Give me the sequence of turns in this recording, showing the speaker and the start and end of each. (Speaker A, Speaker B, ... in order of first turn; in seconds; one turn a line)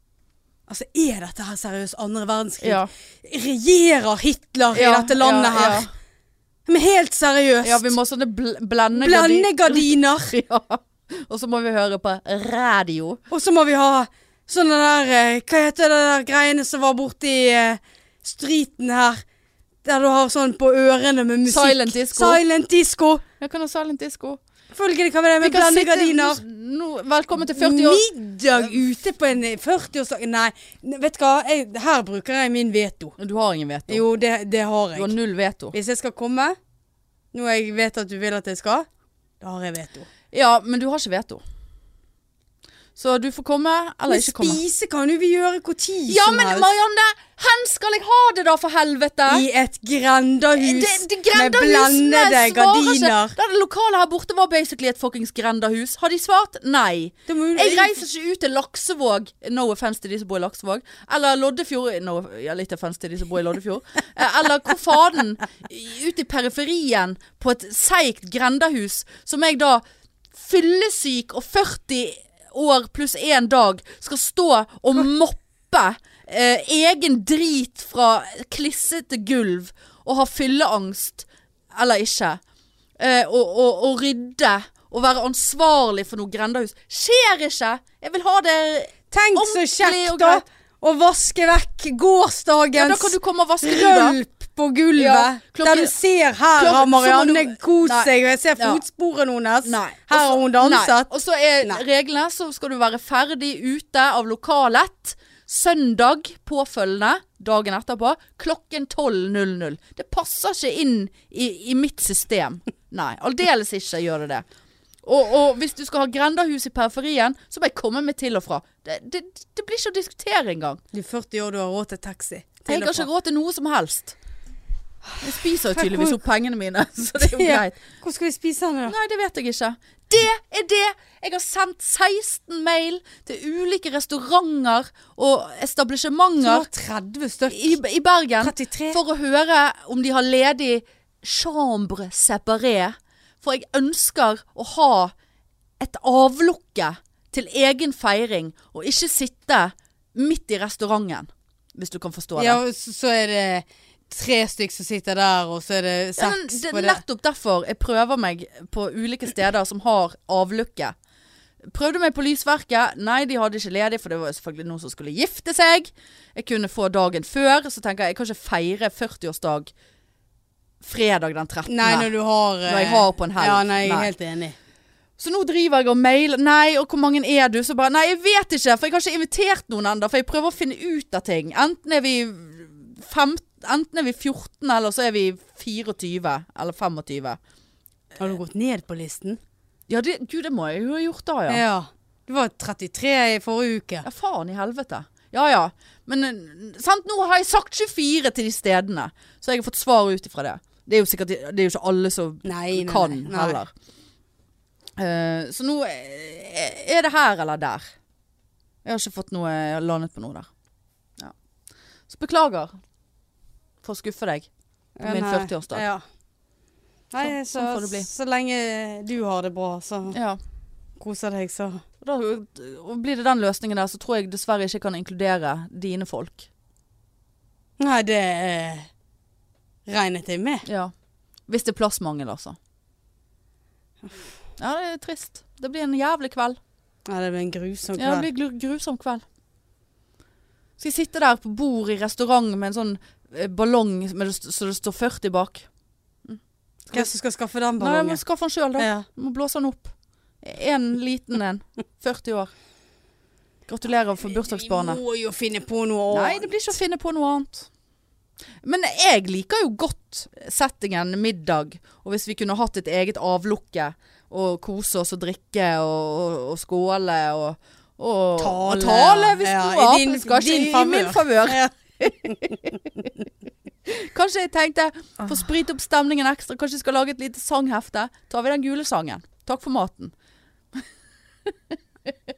Speaker A: 0.7-5.9
Speaker B: 2.6-2.9
Speaker B: 4.7-5.9
Speaker A: 6.7-7.9
Speaker B: 7.6-13.2
Speaker A: 8.9-10.3
Speaker A: 13.3-19.2
Speaker A: 19.8-23.2
Speaker B: 21.4-22.4
Speaker B: 23.4-24.4
Speaker A: 24.7-26.4
Speaker B: 25.4-28.8
Speaker A: 27.5-33.1
Speaker B: 33.2-34.0
Speaker A: 33.9-35.1
Speaker B: 34.9-35.7
Speaker A: 35.7-36.5
Speaker A: 37.3-38.9
Speaker A: 39.4-40.1
Speaker B: 40.3-41.4
Speaker B: 43.0-44.6
Speaker A: 44.1-46.7
Speaker B: 46.1-49.4
Speaker A: 49.3-53.4
Speaker B: 50.5-69.8
Speaker A: 57.3-57.9
Speaker B: 70.3-82.4
Speaker B: 83.0-90.4
Speaker A: 89.1-101.8
Speaker B: 92.8-94.2
Speaker B: 95.0-95.9
Speaker B: 96.5-98.8
Speaker B: 99.6-114.4
Speaker B: 115.0-120.8
Speaker A: 120.9-123.1
Speaker B: 122.7-124.2
Speaker A: 125.1-126.2
Speaker B: 125.2-127.8
Speaker A: 127.2-128.9
Speaker B: 128.8-136.7
Speaker A: 136.4-137.8
Speaker B: 137.5-145.1
Speaker A: 138.4-139.0
Speaker B: 145.8-152.6
Speaker A: 152.3-157.0
Speaker B: 156.2-160.9
Speaker B: 161.6-169.7
Speaker B: 170.8-172.1
Speaker A: 171.7-174.6
Speaker B: 172.6-174.1
Speaker B: 175.2-187.4
Speaker A: 188.2-189.4
Speaker B: 189.9-191.6
Speaker A: 191.5-194.1
Speaker B: 194.0-203.7
Speaker A: 202.4-203.6
Speaker B: 205.0-207.9
Speaker B: 208.8-210.5
Speaker B: 212.1-212.8
Speaker B: 213.8-214.5
Speaker A: 215.0-216.0
Speaker B: 215.0-215.8
Speaker A: 217.1-220.2
Speaker B: 217.2-218.1
Speaker B: 220.1-220.4
Speaker A: 221.0-221.8
Speaker B: 222.0-226.5
Speaker A: 227.8-228.9
Speaker A: 229.9-230.7
Speaker B: 230.7-230.9
Speaker B: 231.5-232.6
Speaker B: 234.6-236.6
Speaker A: 237.1-238.3
Speaker B: 238.0-239.2
Speaker B: 240.8-245.7
Speaker B: 246.2-247.1
Speaker A: 246.9-248.2
Speaker B: 247.8-252.5
Speaker A: 248.8-249.1
Speaker B: 253.7-255.0
Speaker A: 254.3-256.5
Speaker B: 256.1-257.7
Speaker B: 258.6-272.7
Speaker A: 268.4-273.0
Speaker B: 273.9-280.1
Speaker B: 281.4-282.1